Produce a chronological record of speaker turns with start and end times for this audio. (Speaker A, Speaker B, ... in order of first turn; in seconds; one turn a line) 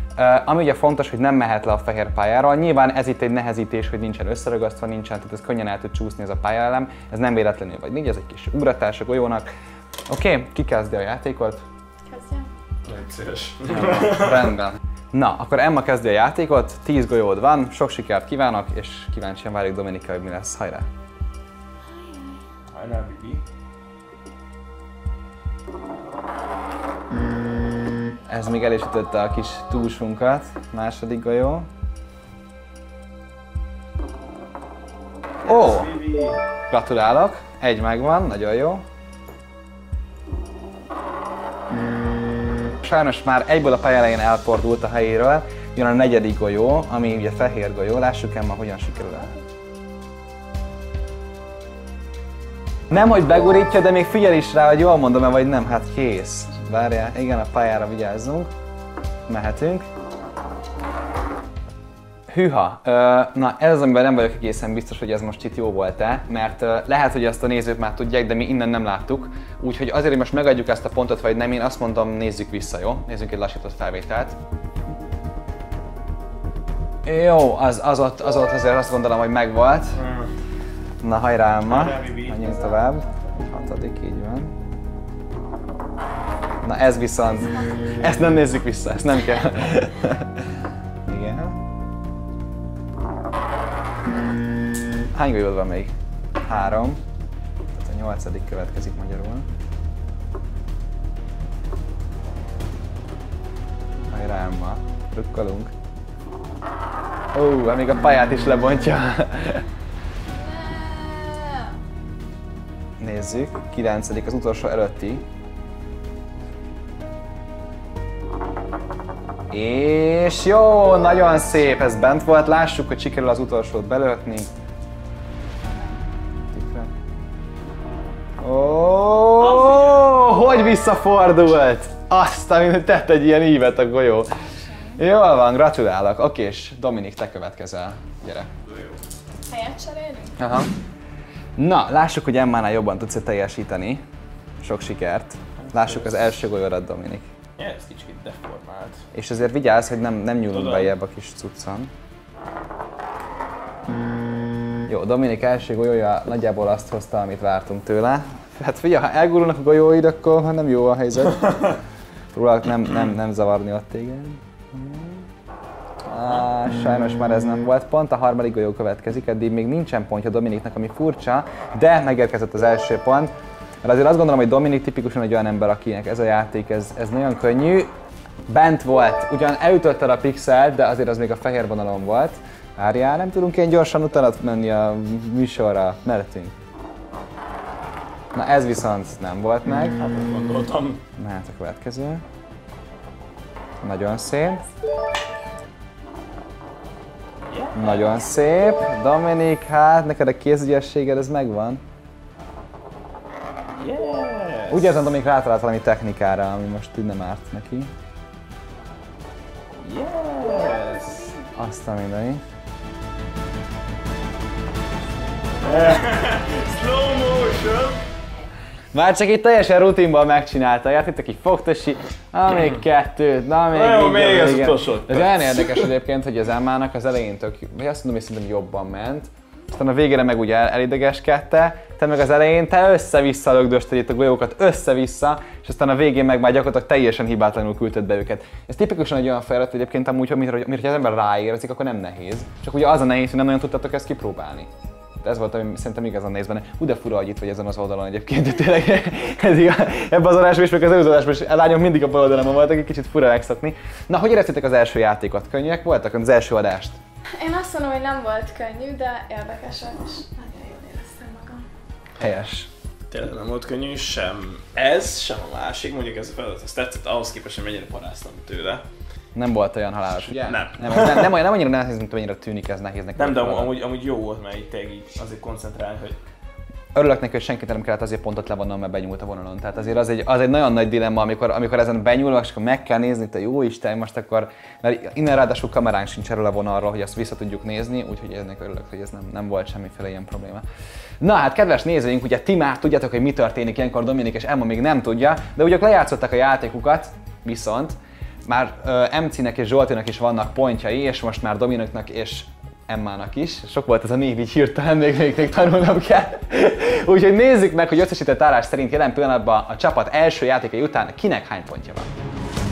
Speaker A: 0.2-9.5
Speaker A: 10.1-11.6
Speaker B: 12.1-12.5
Speaker C: 12.8-14.3
Speaker A: 13.7-20.9
Speaker B: 21.9-22.4
Speaker C: 22.7-23.4
Speaker A: 28.3-31.7
Speaker C: 35.4-36.4
Speaker A: 35.4-36.0
Speaker A: 36.7-38.8
Speaker A: 42.8-49.3
Speaker B: 49.1-49.4
Speaker A: 52.9-58.5
Speaker A: 59.3-59.9
Speaker A: 62.3-74.4
Speaker A: 77.0-80.0
Speaker C: 79.9-80.3
Speaker A: 81.0-84.5
Speaker C: 81.7-82.4
Speaker B: 82.6-83.6
Speaker A: 86.6-90.4
Speaker A: 91.0-91.6
Speaker A: 95.1-97.0
Speaker A: 97.8-99.5
Speaker A: 104.1-105.7
Speaker A: 107.3-109.7
Speaker B: 110.3-111.7
Speaker A: 113.0-115.2
Speaker A: 119.5-124.5
Speaker B: 125.6-126.0
Speaker A: 126.5-126.9
Speaker A: 128.4-134.3
Speaker C: 129.4-130.2
Speaker B: 134.5-135.0
Speaker A: 135.0-138.5
Speaker C: 138.6-139.0
Speaker B: 139.5-140.4
Speaker A: 140.4-140.7
Speaker A: 141.6-144.0
Speaker A: 144.6-147.3
Speaker C: 145.6-146.1
Speaker C: 147.6-149.0
Speaker A: 149.1-151.9
Speaker C: 150.5-150.9
Speaker A: 154.9-161.8
Speaker A: 162.3-165.2
Speaker A: 166.1-173.3
Speaker A: 173.8-177.9
Speaker A: 178.5-186.5
Speaker A: 188.3-190.0
Speaker C: 190.0-191.0
Speaker A: 191.2-192.2
Speaker A: 193.8-194.6
Speaker C: 197.5-198.2
Speaker A: 197.8-201.8
Speaker C: 203.7-205.1
Speaker A: 204.7-207.9
Speaker C: 209.8-211.3
Speaker A: 211.6-212.4
Speaker C: 215.6-218.0
Speaker A: 218.9-244.7
Speaker C: 223.7-225.9
Speaker A: 245.2-257.0
Speaker B: 257.4-261.6
Speaker A: 262.2-262.7
Speaker C: 263.1-268.8
Speaker A: 269.3-273.8
Speaker C: 270.3-271.4
Speaker C: 273.1-276.2
Speaker A: 276.9-290.6
Speaker A: 291.2-312.1